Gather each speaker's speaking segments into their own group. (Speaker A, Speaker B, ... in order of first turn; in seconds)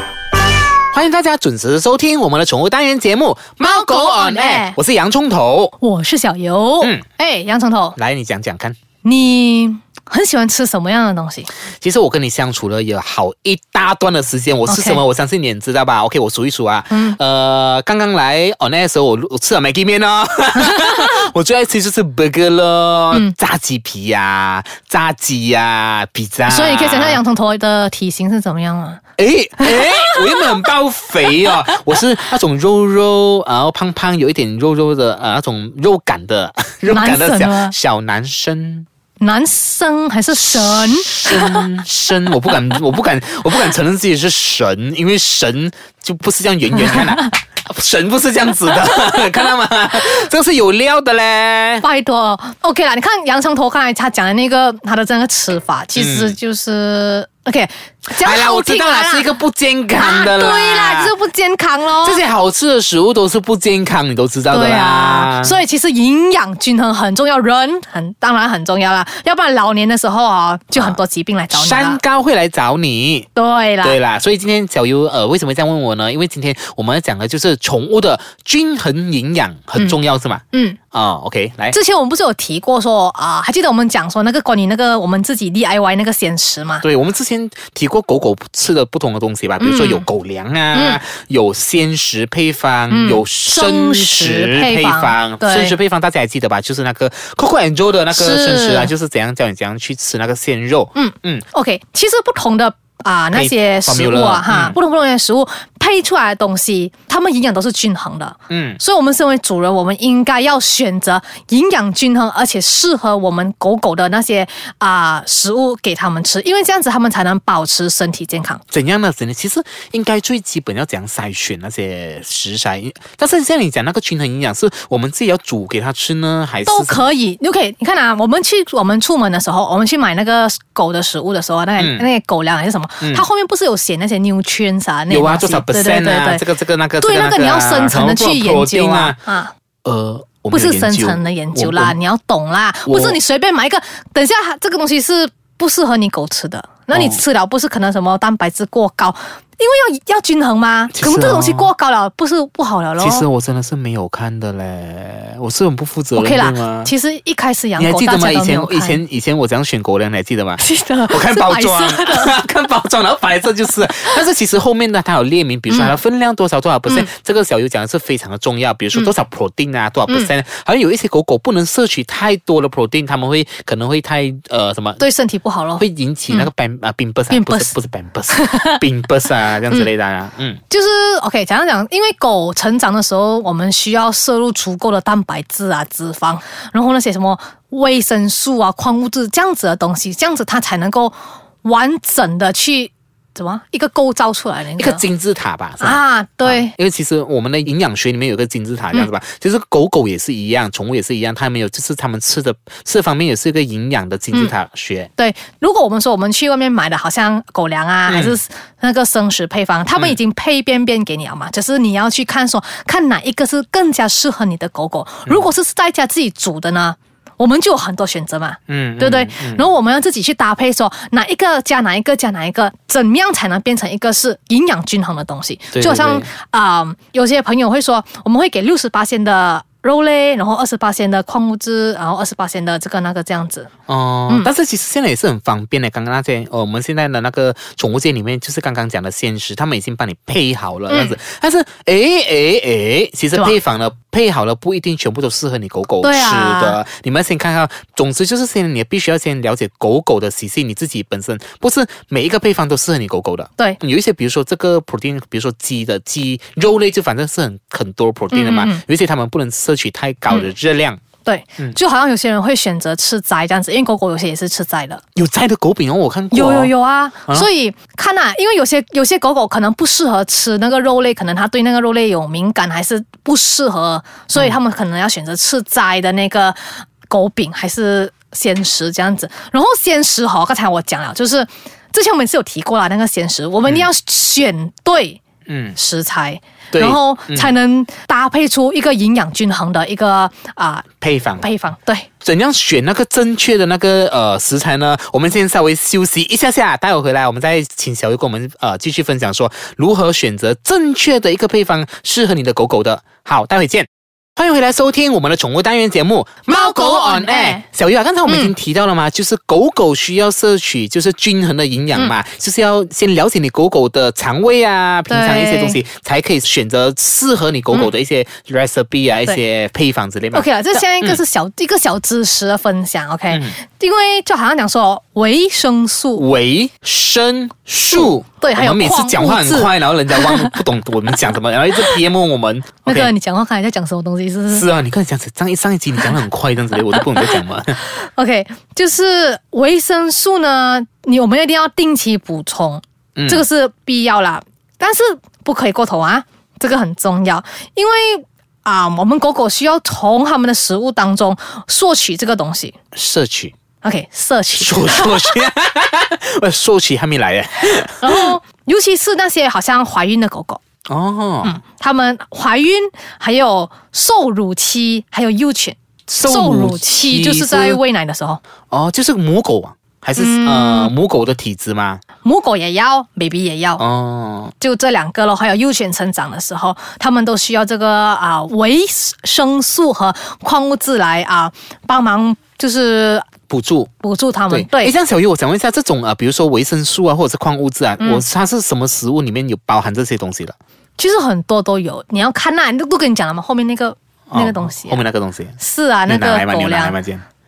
Speaker A: 0.9-5.7, 8.0-8.8, 11.8-27.2, 29.2-38.9, 40.5-51.9, 55.9-56.4, 58.1-61.1, 62.0-65.6, 70.8-73.3, 73.8-81.8, 86.8-101.4, 103.3-104.8, 108.5-108.8, 118.7-127.1, 131.8-132.1, 135.1-139.2, 139.8-141.9, 142.9-143.2, 146.9-147.2, 150.9-151.7, 153.0-156.9, 157.8-175.0, 175.8-180.6, 194.8-205.1, 208.1-208.4, 218.7-219.7, 225.7-226.3, 233.9-261.0, 265.1-266.7, 283.6-283.9, 285.5-285.8, 286.7-287.5, 291.0-291.4, 292.2-321.2, 323.3-323.6, 326.1-333.1, 334.5-337.8, 343.1-343.4, 352.9-353.5, 354.6-358.4, 360.9-361.6, 366.1-367.8, 368.7-372.0, 373.8-374.5, 383.5-383.9, 384.5-390.6, 394.3-397.2
Speaker B: 3.6-4.8, 5.8-8.0, 9.0-11.5, 14.7-15.0, 16.9-17.2, 20.7-21.1, 26.5-29.0, 29.6-30.5, 36.9-37.7, 39.2-41.7, 46.9-47.3, 51.8-59.3, 59.9-62.2, 64.5-72.0, 73.3-74.0, 80.5-80.8, 81.7-86.8, 89.6-90.0, 90.7-91.0, 92.9-95.8, 98.1-98.9, 100.9-118.6, 126.7-136.4, 137.0-139.5, 140.5-153.3, 156.2-159.0, 160.6-162.4, 165.7-165.9, 175.0-176.5, 177.3-177.7, 178.3-178.8, 180.7-195.0, 195.8-196.7, 205.2-233.7, 240.9-241.2, 246.0-246.8, 258.3-258.8, 261.2-265.0, 266.3-285.2, 285.8-292.1, 306.5-307.6, 308.3-308.5, 315.1-315.8, 320.3-326.2, 327.9-330.6, 332.8-334.7, 336.9-352.8, 353.8-355.4, 358.0-360.6, 361.4-368.4, 370.2-370.9, 372.2-373.8, 374.6-383.3, 384.0-384.9, 388.0-388.2, 391.0-395.1, 395.6-397.0